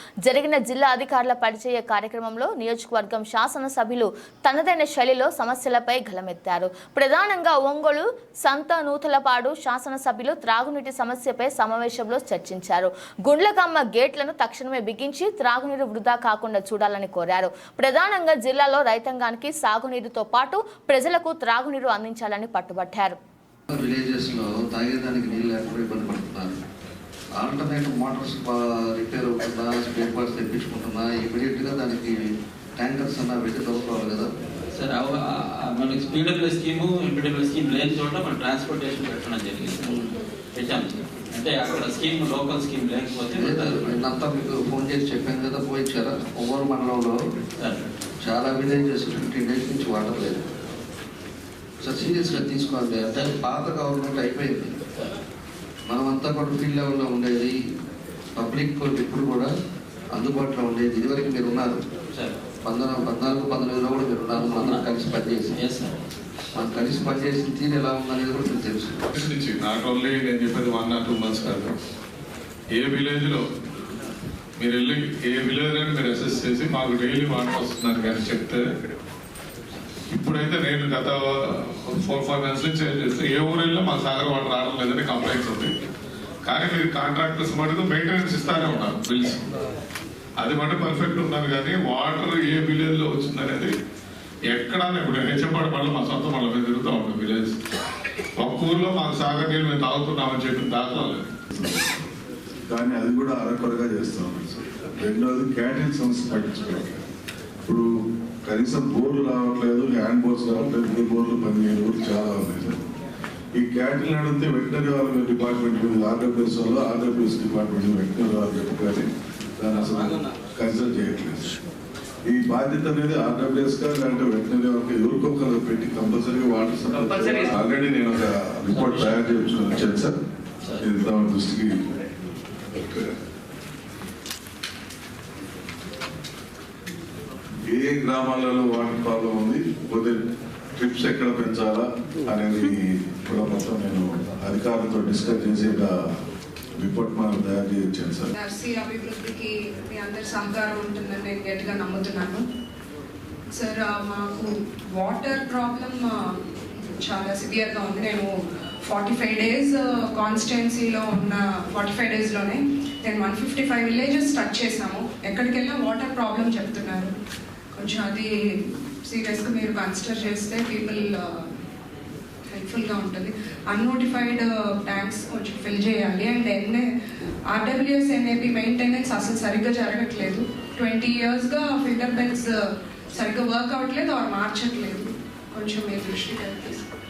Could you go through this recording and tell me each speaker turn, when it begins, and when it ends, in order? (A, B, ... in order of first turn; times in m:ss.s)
0:00.2-0:23.2 A
0:23.7-0:26.6 B
0:27.4-0:34.3 B
0:34.7-0:40.0 C
0:39.8-0:40.1 B
0:40.6-0:44.0 C
0:43.3-0:47.2 B
0:47.6-0:47.9 C
0:48.2-0:50.5 B
0:51.8-0:54.8 B
0:52.2-0:52.5 C
0:55.9-0:57.6 B
0:58.4-0:59.5 B
1:00.1-1:01.8 B
1:02.1-1:02.4 C
1:02.6-1:05.6 B
1:04.3-1:04.9 C
1:05.6-1:06.0 C
1:06.6-1:09.0 B
1:09.2-1:11.8 D
1:12.7-1:13.4 D
1:14.6-1:18.6 D
1:20.1-1:25.7 D
1:26.4-1:29.4 D
1:30.4-1:33.7 D
1:34.5-1:37.6 D
1:38.4-1:41.2 D
1:41.5-1:42.1 E
1:42.7-1:47.0 E
1:48.4-1:52.8 E
1:53.6-1:59.1 E
1:59.6-2:01.5 E
2:02.3-2:10.2 E
2:10.8-2:11.8 E
2:12.7-2:13.1 E
2:17.7-2:20.2 E
2:20.8-2:26.0 E
2:26.8-2:28.3 E
2:28.4-2:32.5 F
2:33.5-2:38.3 F
2:38.8-2:47.2 F
2:47.7-2:51.5 F
2:52.5-2:56.9 F
2:57.5-3:06.9 F